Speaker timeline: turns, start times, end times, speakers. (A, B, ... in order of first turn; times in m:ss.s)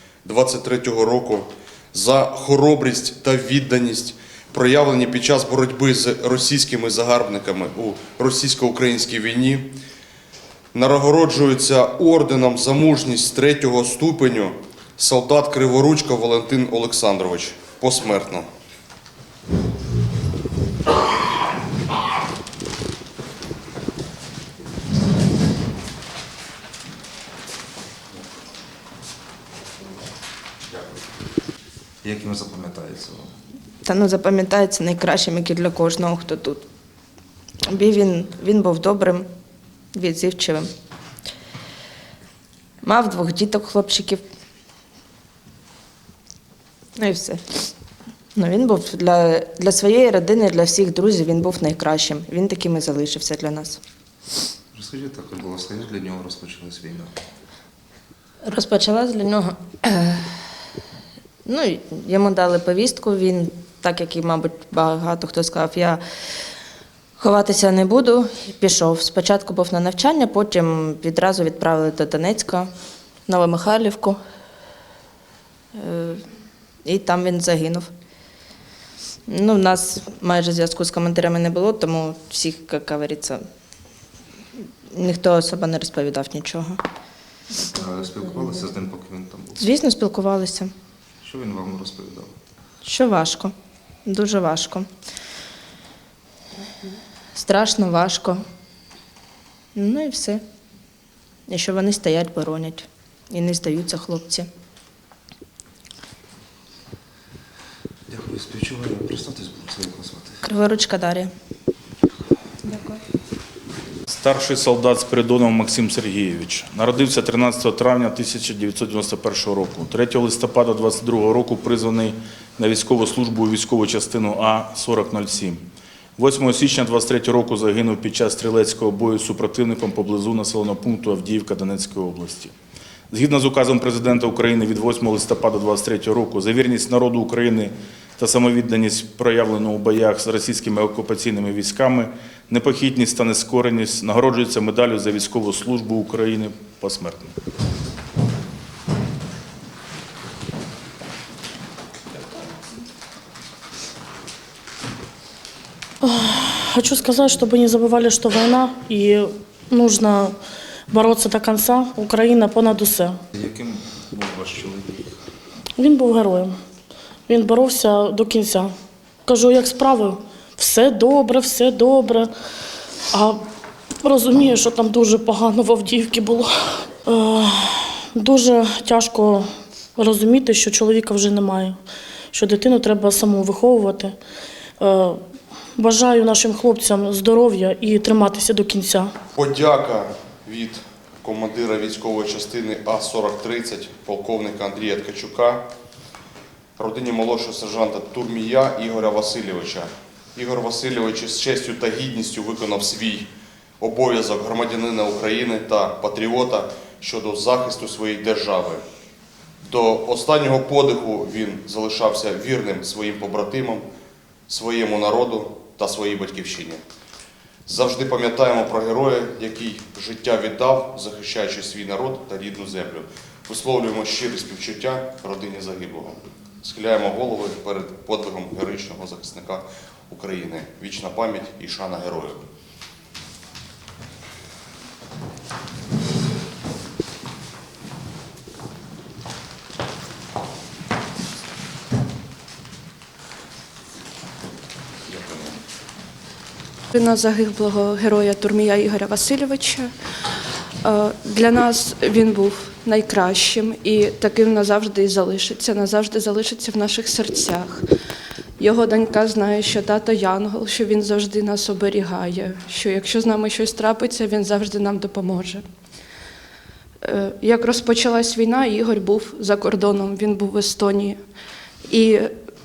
0:00.2-0:09.7 A
0:10.7-0:18.4 A
0:32.0-0:33.3 B
0:33.8-0:36.6 C
0:37.7-0:39.3 C
0:39.9-0:40.7 C
0:42.8-0:44.2 C
0:47.0-0:47.4 C
0:48.4-0:53.8 C
0:54.7-0:57.2 B
0:58.4-1:00.2 C
1:01.4-1:06.0 C
1:07.2-1:12.7 C
1:13.3-1:14.2 C
1:15.8-1:16.2 C
1:16.8-1:17.9 C
1:19.3-1:23.4 C
1:24.9-1:26.8 C
1:27.7-1:29.8 B
1:29.6-1:30.7 C
1:31.2-1:32.3 B
1:32.8-1:33.5 C
1:34.1-1:34.9 C
1:37.3-1:38.4 C
1:39.8-1:40.4 C
1:41.5-1:44.5 C
1:48.1-1:50.4 B
1:50.4-1:51.3 C
1:52.6-1:53.0 C
1:54.1-2:05.6 D
2:06.2-2:12.5 D
2:13.1-2:27.3 D
2:36.0-2:40.3 E
2:40.9-2:43.2 E
2:43.3-2:45.2 B
2:45.8-2:46.6 E
2:47.3-2:48.7 E
2:49.2-2:52.3 E
2:53.1-2:53.4 E
2:54.0-2:59.5 E
3:00.0-3:01.8 E
3:02.3-3:04.2 E
3:04.8-3:05.2 E
3:05.8-3:09.1 E
3:09.3-3:15.7 A
3:16.8-3:28.8 A
3:29.6-3:33.8 A
3:34.5-3:36.8 A
3:37.7-3:52.4 A
4:05.1-4:05.6 A
4:07.0-4:09.8 F
4:11.1-4:17.8 F
4:18.6-4:25.6 F
4:27.2-4:31.1 F